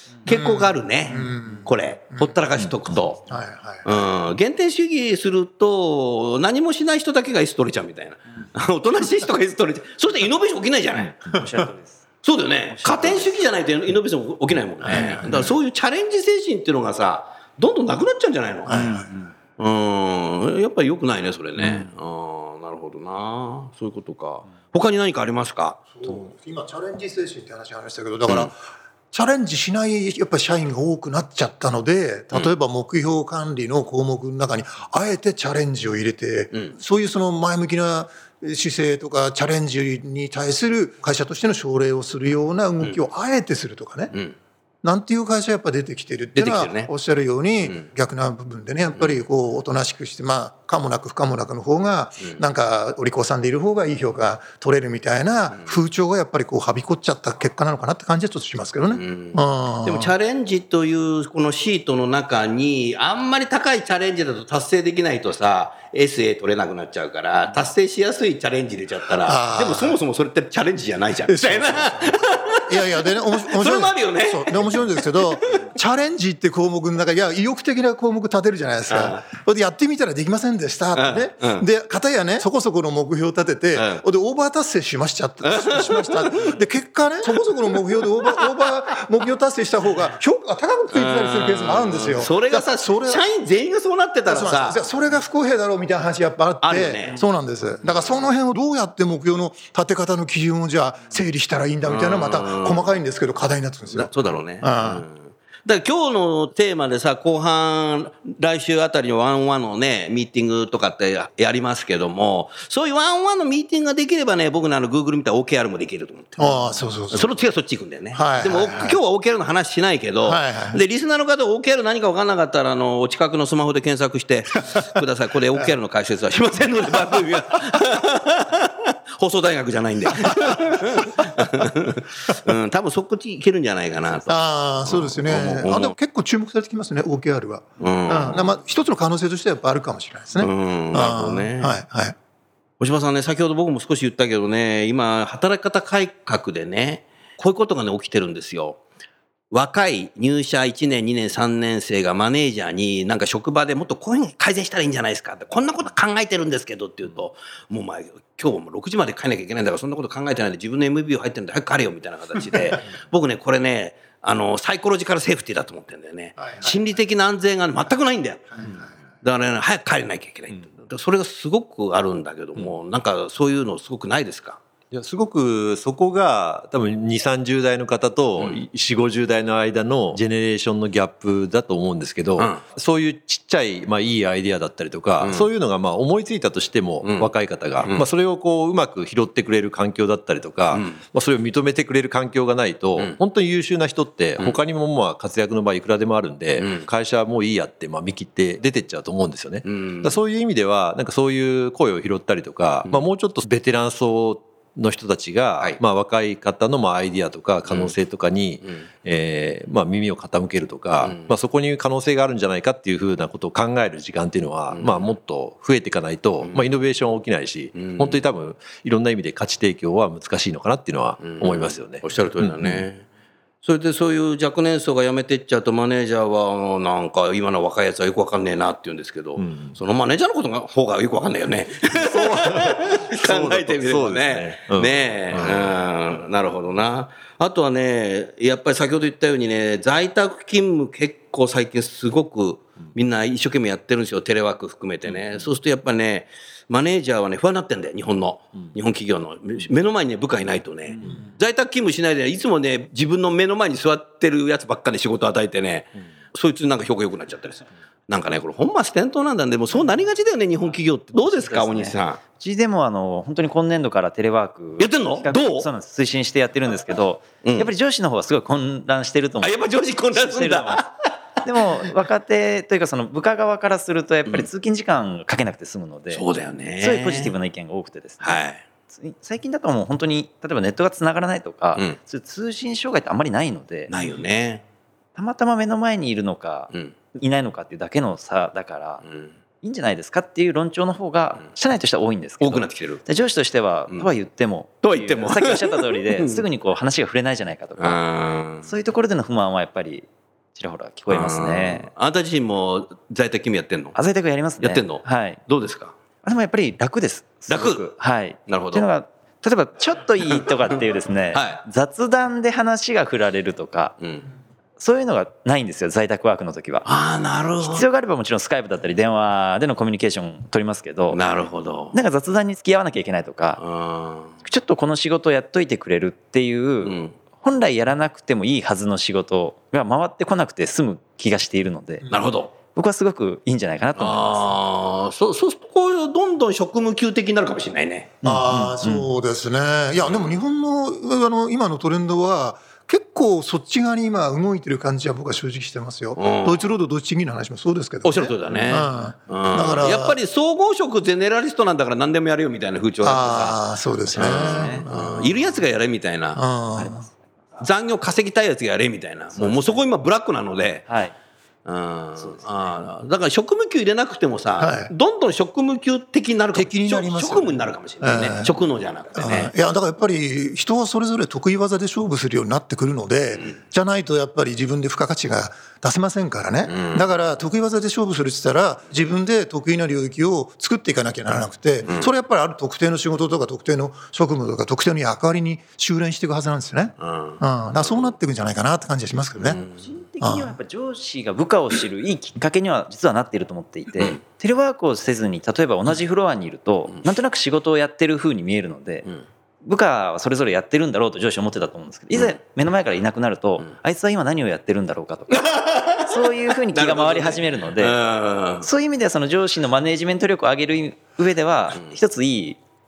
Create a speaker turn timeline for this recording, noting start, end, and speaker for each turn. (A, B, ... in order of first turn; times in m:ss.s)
0:00.2-0:03.2 A
0:00.3-0:02.4 B
0:03.3-0:04.0 B
0:03.8-0:11.2 A
0:11.3-0:12.0 C
0:12.2-0:18.8 A
0:12.7-0:13.4 C
0:14.8-0:15.6 B
0:18.7-0:19.1 B
0:18.7-0:19.3 C
0:19.6-0:26.2 A
0:25.9-0:44.1 B
0:44.8-1:00.1 B
0:46.4-0:46.9 A
0:58.9-1:15.6 A
1:09.2-1:10.0 B
1:11.3-1:33.2 B
1:18.9-1:19.2 A
1:21.0-1:21.6 A
1:23.8-1:24.0 A
1:25.4-1:26.6 A
1:27.3-1:28.4 A
1:30.9-1:34.8 A
1:34.3-1:45.1 B
1:36.6-1:37.2 A
1:41.9-1:42.9 A
1:43.9-2:16.0 A
1:56.4-1:57.3 B
1:58.1-1:59.0 B
2:00.2-2:00.8 B
2:10.3-2:11.4 B
2:14.3-2:22.2 B
2:17.8-2:18.5 A
2:20.4-2:21.8 A
2:22.8-2:28.8 A
2:29.5-2:48.7 A
2:46.4-2:46.8 B
2:48.6-2:48.9 B
2:49.2-2:54.6 A
2:54.9-3:42.9 D
3:05.2-3:05.5 A
3:07.0-3:08.1 A
3:10.7-3:11.0 A
3:16.6-3:16.9 A
3:19.6-3:20.2 A
3:27.7-3:27.9 A
3:31.0-3:31.3 A
3:34.7-3:35.1 A
3:37.7-3:38.2 A
3:41.2-3:43.0 A
3:43.6-4:22.2 A
3:49.4-3:49.8 D
3:51.9-3:55.8 D
4:21.3-4:30.9 C
4:24.8-4:25.7 A
4:27.4-4:27.7 A
4:29.4-4:30.9 A
4:31.4-4:36.2 C
4:36.1-4:37.3 A
4:36.8-4:43.9 C
4:38.2-4:38.6 A
4:43.9-4:44.6 A
4:45.2-4:49.0 C
4:49.0-4:49.3 A
4:49.6-4:58.0 C
4:52.4-4:53.0 A
4:54.8-4:56.4 A
4:57.8-4:58.7 A
4:58.6-5:01.9 C
5:01.1-5:04.0 A
5:04.0-5:05.4 C
5:04.6-5:05.9 A
5:06.2-5:14.0 C
5:07.5-5:07.9 A
5:08.5-5:08.9 A
5:11.3-5:11.6 A
5:14.8-5:16.9 C
5:16.8-5:17.8 A
5:17.6-5:21.2 C
5:21.1-5:22.0 A
5:21.9-5:23.6 C
5:23.6-5:24.3 A
5:24.4-5:32.1 C
5:26.8-5:27.1 A
5:32.1-5:32.5 A
5:32.8-5:34.4 C
5:34.0-5:38.2 A
5:38.2-5:50.2 B
5:38.2-5:39.1 C
5:40.0-5:40.3 A
5:46.2-5:46.6 A
5:48.0-5:53.6 A
5:53.0-5:55.3 B
5:54.1-5:56.4 A
5:54.2-5:54.9 C
5:56.4-5:57.0 B
5:56.8-5:57.1 C
5:57.6-6:00.9 A
5:59.4-5:59.8 C
6:00.9-6:01.1 C
6:01.7-6:09.5 A
6:02.2-6:02.4 C
6:04.6-6:04.9 B
6:06.5-6:08.5 B
6:09.2-6:29.6 B
6:16.7-6:17.0 A
6:27.0-6:27.4 A
6:29.4-6:29.7 A
6:29.8-6:39.1 C
6:30.2-6:30.5 B
6:39.6-6:48.0 C
6:45.3-6:48.6 A
6:48.6-6:52.6 C